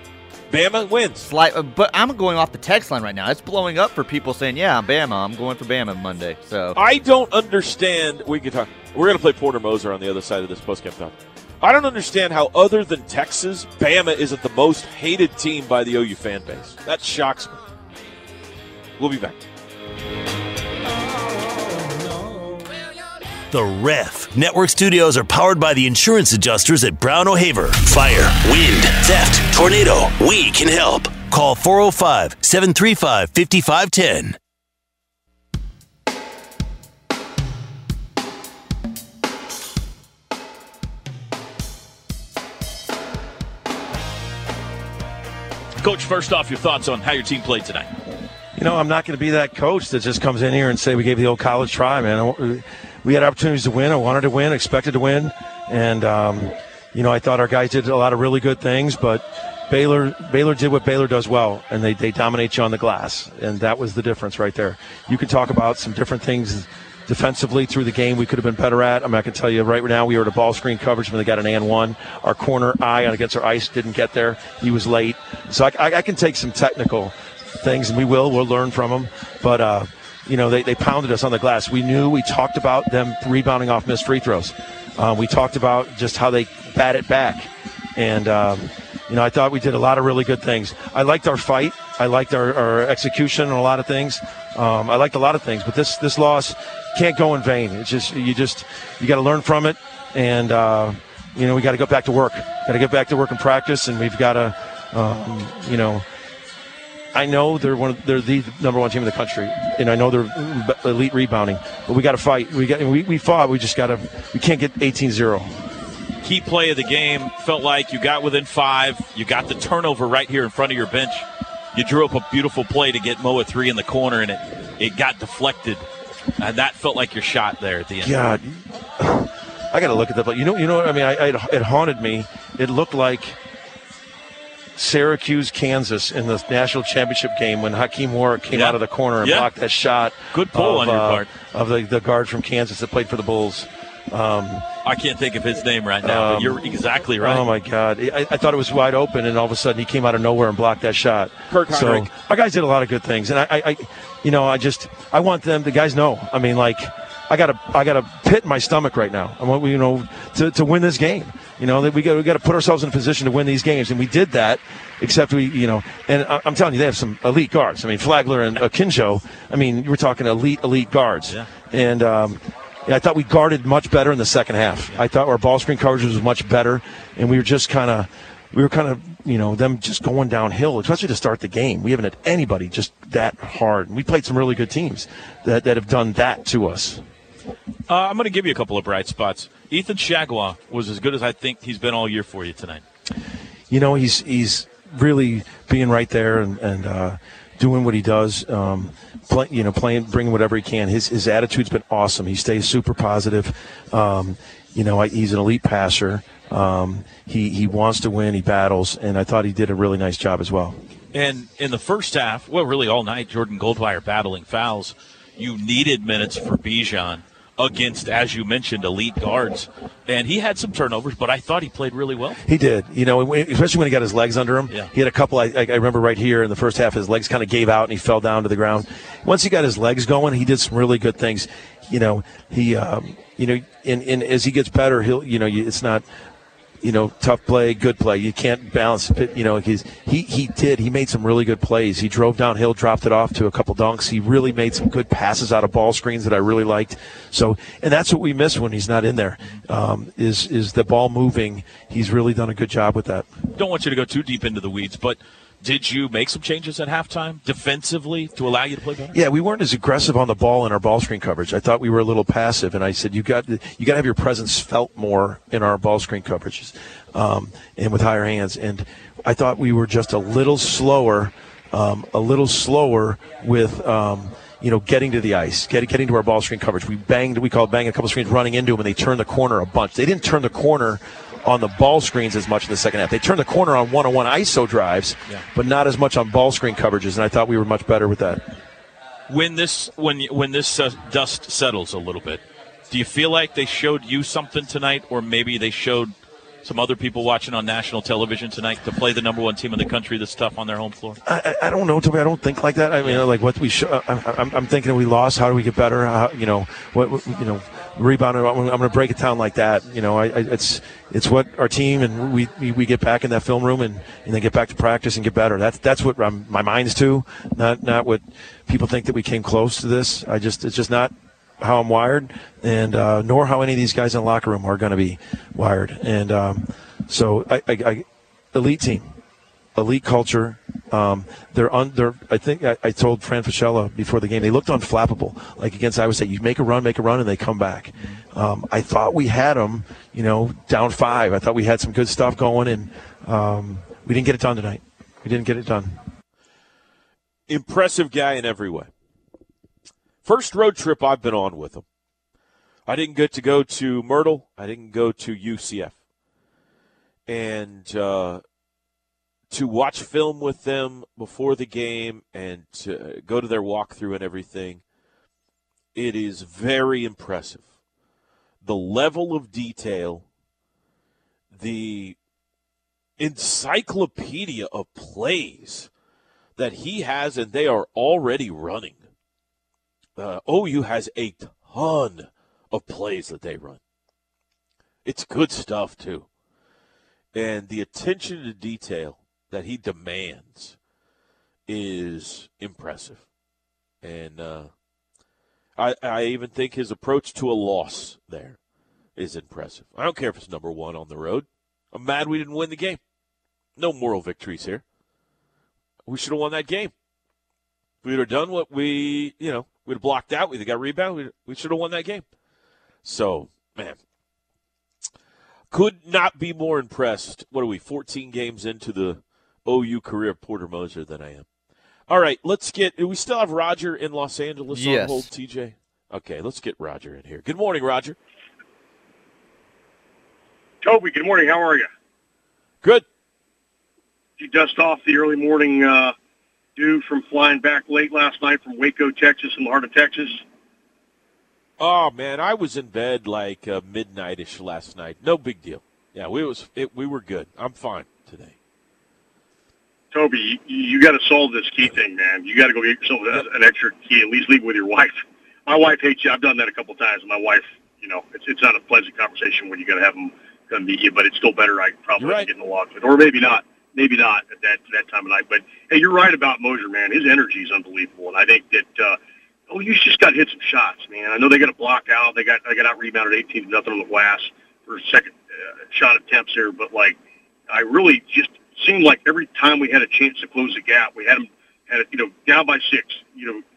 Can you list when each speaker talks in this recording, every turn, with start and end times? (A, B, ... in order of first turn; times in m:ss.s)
0:00.5-0:01.3 A
0:01.2-0:06.8 B
0:06.8-0:17.6 A
0:19.0-0:19.4 A
0:23.5-0:34.4 C
0:45.8-0:47.9 D
0:48.5-1:46.1 E
1:47.1-1:55.6 E
1:56.2-2:05.8 D
2:06.4-2:08.2 D
2:08.0-2:13.4 E
2:14.8-2:24.7 E
2:18.5-2:19.5 D
2:20.4-2:21.3 D
2:24.8-2:27.4 D
2:26.0-2:26.6 E
2:27.2-3:07.0 E
2:31.5-2:32.1 A
3:07.9-3:12.8 D
3:13.7-3:30.8 E
3:31.1-3:42.4 D
3:42.4-3:56.1 E
3:56.8-4:13.3 E
4:13.6-4:19.2 D
4:19.1-4:48.6 E
4:49.3-5:01.2 D
5:01.3-5:29.2 E
5:29.8-5:46.0 E
5:47.5-5:48.9 A
5:50.2-5:51.8 A
5:52.9-5:56.0 A
5:57.3-5:58.4 A
5:59.5-6:04.8 A
6:05.9-6:07.6 A
6:08.6-6:10.3 A
6:11.5-6:12.2 A
6:13.2-6:15.9 A
6:16.6-6:19.0 A
6:20.2-6:23.8 A
6:25.0-6:26.3 A
6:27.3-6:30.8 A
6:31.7-6:33.2 A
6:34.0-6:34.7 A
6:35.8-6:38.6 A
6:39.2-6:43.0 A
6:43.8-6:44.8 A
6:46.1-6:46.9 A
6:48.0-6:52.2 A
6:53.0-6:54.0 A
6:55.7-7:01.5 A
7:02.1-7:08.2 A
7:04.7-7:05.3 B
7:10.8-7:11.9 F
7:14.4-7:16.1 F
7:16.8-7:20.4 F
7:21.8-7:28.6 A
7:30.1-7:49.2 F
7:42.2-7:42.5 A
7:49.7-7:55.4 F
7:55.9-7:57.2 F
7:57.7-8:03.6 F